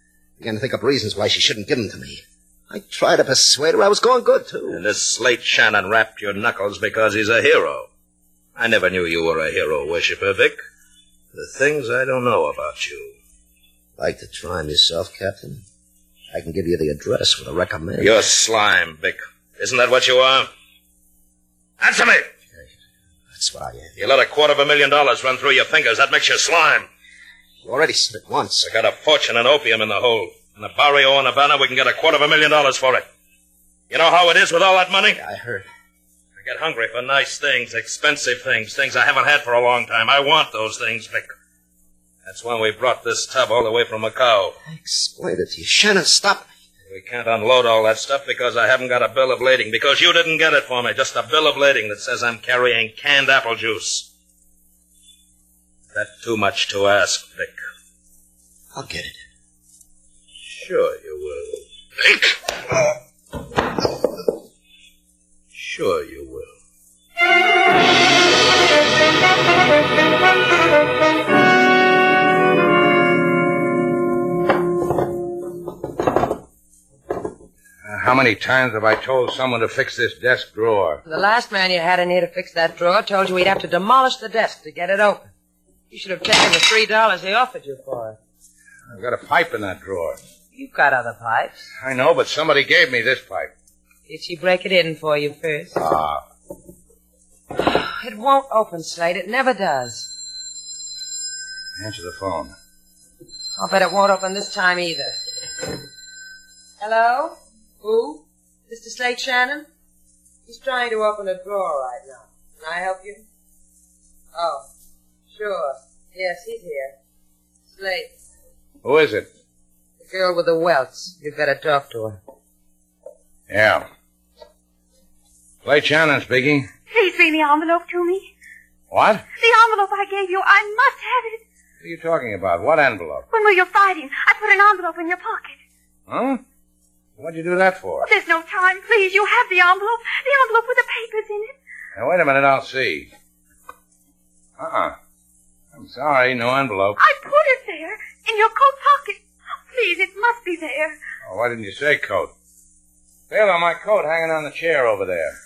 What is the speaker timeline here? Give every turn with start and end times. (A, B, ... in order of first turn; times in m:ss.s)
0:00.4-0:04.8 A
0:04.7-0:07.9 B
0:08.6-0:10.6 B
0:11.3-0:13.2 B
0:14.0-0:15.6 A
0:16.3-0:18.2 A
0:18.0-0:20.5 B
0:21.8-0:22.3 B
0:23.3-0:23.9 A
0:24.0-0:26.9 B
0:27.6-0:28.6 A
0:28.6-0:33.0 B
0:33.9-0:35.2 B
0:35.2-0:35.6 A
0:36.4-0:41.3 B
0:42.2-0:44.5 B
0:44.6-0:46.5 A
0:46.9-0:54.0 B
0:55.9-0:57.7 B
0:58.7-0:59.2 A
1:00.4-1:02.3 B
1:05.5-1:06.6 B
1:17.8-1:21.0 C
1:21.0-1:25.3 D
1:25.9-1:28.2 D
1:28.9-1:30.2 C
1:30.5-1:31.7 D
1:31.8-1:33.5 C
1:34.1-1:35.8 D
1:35.8-1:36.2 C
1:37.6-1:40.1 D
1:41.8-1:42.5 C
1:43.6-1:45.2 D
1:46.8-1:49.6 D
1:50.5-1:53.2 D
1:54.3-1:54.7 D
1:55.3-1:57.0 D
1:57.7-1:58.1 D
1:58.8-1:59.3 C
2:00.0-2:02.2 D
2:03.5-2:03.8 C
2:05.6-2:06.7 C
2:06.9-2:08.3 E
2:08.9-2:09.2 C
2:09.4-2:11.4 E
2:11.8-2:13.2 C
2:13.3-2:15.6 E
2:16.1-2:16.4 C
2:17.2-2:18.1 C
2:18.0-2:21.5 E
2:21.9-2:23.1 C
2:24.6-2:25.0 C
2:25.7-2:27.0 C
2:27.0-2:31.0 E
2:31.2-2:32.3 C
2:33.3-2:35.4 C